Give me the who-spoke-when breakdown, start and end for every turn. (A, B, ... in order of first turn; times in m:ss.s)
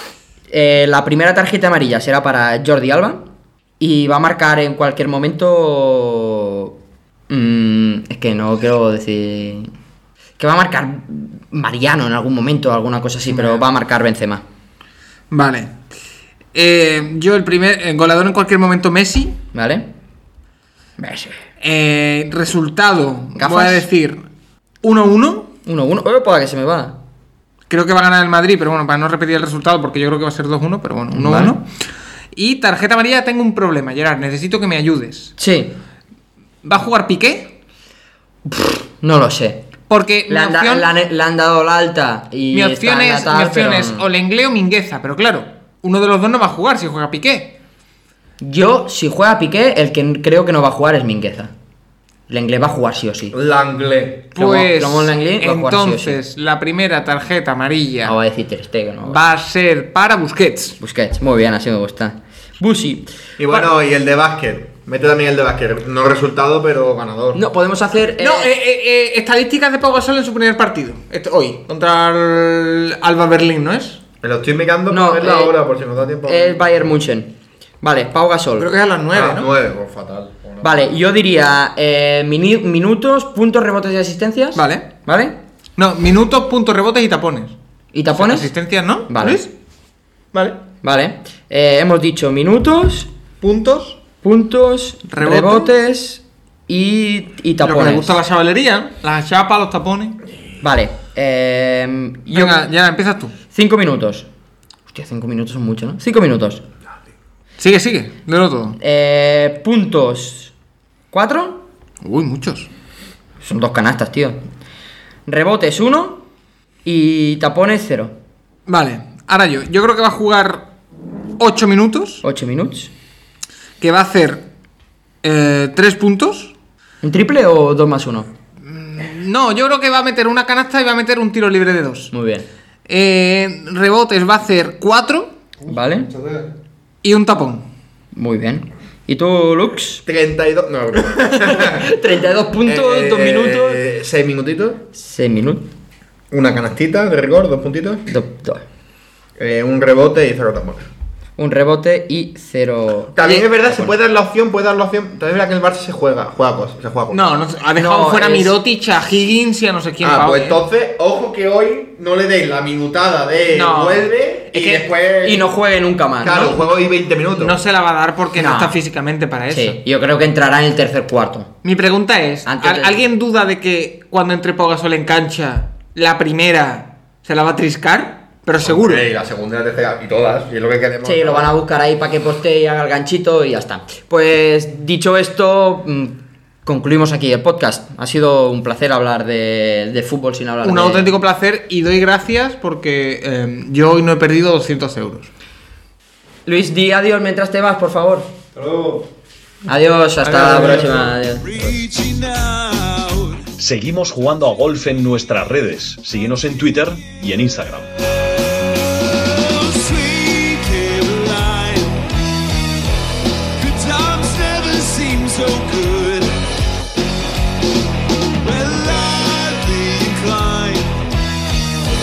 0:00.5-0:03.2 A
0:03.8-0:06.7 A
0:07.3-0:09.7 A
0:10.4-0:14.4 A
0:15.3-0:15.7 B
0:16.5-0:19.4 B
0:19.5-0:19.9 A
0:21.0-0:21.4 A
0:21.6-0:24.2 B
0:23.4-0:23.9 A
0:24.8-0:25.5 B
0:25.6-0:27.0 A
0:27.7-0:31.7 B
0:31.1-0:31.5 A
0:32.3-0:35.3 B
0:35.4-0:35.7 A
0:36.6-0:37.5 B
0:38.5-0:39.6 A
0:39.9-0:40.9 B
0:40.3-0:44.0 A
0:42.5-0:47.5 B
0:48.4-0:51.5 A
0:52.3-0:53.4 A
0:53.3-0:54.3 C
0:54.4-0:58.2 B
0:54.4-0:56.2 A
0:58.0-0:59.2 A
0:59.1-1:00.8 B
1:00.8-1:03.1 A
1:03.4-1:07.4 C
1:07.4-1:08.5 A
1:08.2-1:14.0 B
1:14.2-1:16.8 C
1:14.9-1:15.6 A
1:16.2-1:18.7 A
1:18.6-1:19.5 B
1:19.1-1:20.8 C
1:20.6-1:25.4 A
1:24.6-1:24.9 B
1:25.8-1:27.6 B
1:27.9-1:28.5 A
1:28.1-1:29.5 B
1:29.1-1:29.4 A
1:30.3-1:30.6 B
1:30.8-1:33.1 A
1:33.4-1:34.0 B
1:34.2-1:38.1 A
1:35.1-1:35.7 B
1:37.6-1:40.2 B
1:40.6-1:42.7 A
1:42.3-1:43.3 B
1:43.5-1:44.3 A
1:44.9-1:46.6 A
1:47.6-1:48.8 B
1:48.8-1:50.5 A
1:51.1-1:51.6 A
1:52.0-1:52.7 B
1:53.4-1:54.4 A
1:55.3-1:56.2 A
1:56.8-1:58.1 A
1:58.7-2:00.6 B
2:01.4-2:02.2 B
2:02.2-2:02.9 A
2:03.8-2:04.4 B
2:05.2-2:06.5 B
2:07.0-2:08.3 A
2:08.6-2:12.1 B
2:12.1-2:12.5 A
2:12.9-2:15.4 B
2:15.7-2:16.1 A
2:17.0-2:17.7 B
2:18.1-2:20.0 A
2:20.1-2:21.9 C
2:21.5-2:23.8 A
2:22.6-2:24.8 C
2:25.0-2:25.7 A
2:26.3-2:28.0 C
2:28.1-2:28.6 A
2:29.4-2:30.8 C
2:31.4-2:33.9 A
2:33.2-2:37.4 C
2:37.1-2:40.6 B
2:37.8-2:38.5 A
2:40.0-2:45.5 C
2:43.5-2:44.6 B
2:44.6-2:46.5 A
2:46.2-2:47.6 C
2:46.3-2:46.6 B
2:47.4-2:49.8 B
2:48.4-2:48.8 A
2:49.5-2:51.5 A
2:51.6-2:59.0 B
2:52.5-2:53.0 A
2:58.6-3:01.5 C
3:01.0-3:11.1 A
3:10.6-3:15.3 B
3:16.5-3:18.3 A
3:18.6-3:19.0 C
3:19.7-3:21.5 A
3:20.2-3:21.1 B
3:21.4-3:23.5 D
3:23.6-3:27.9 E
3:28.5-3:32.1 D
3:33.6-3:36.5 D
3:38.4-3:41.1 D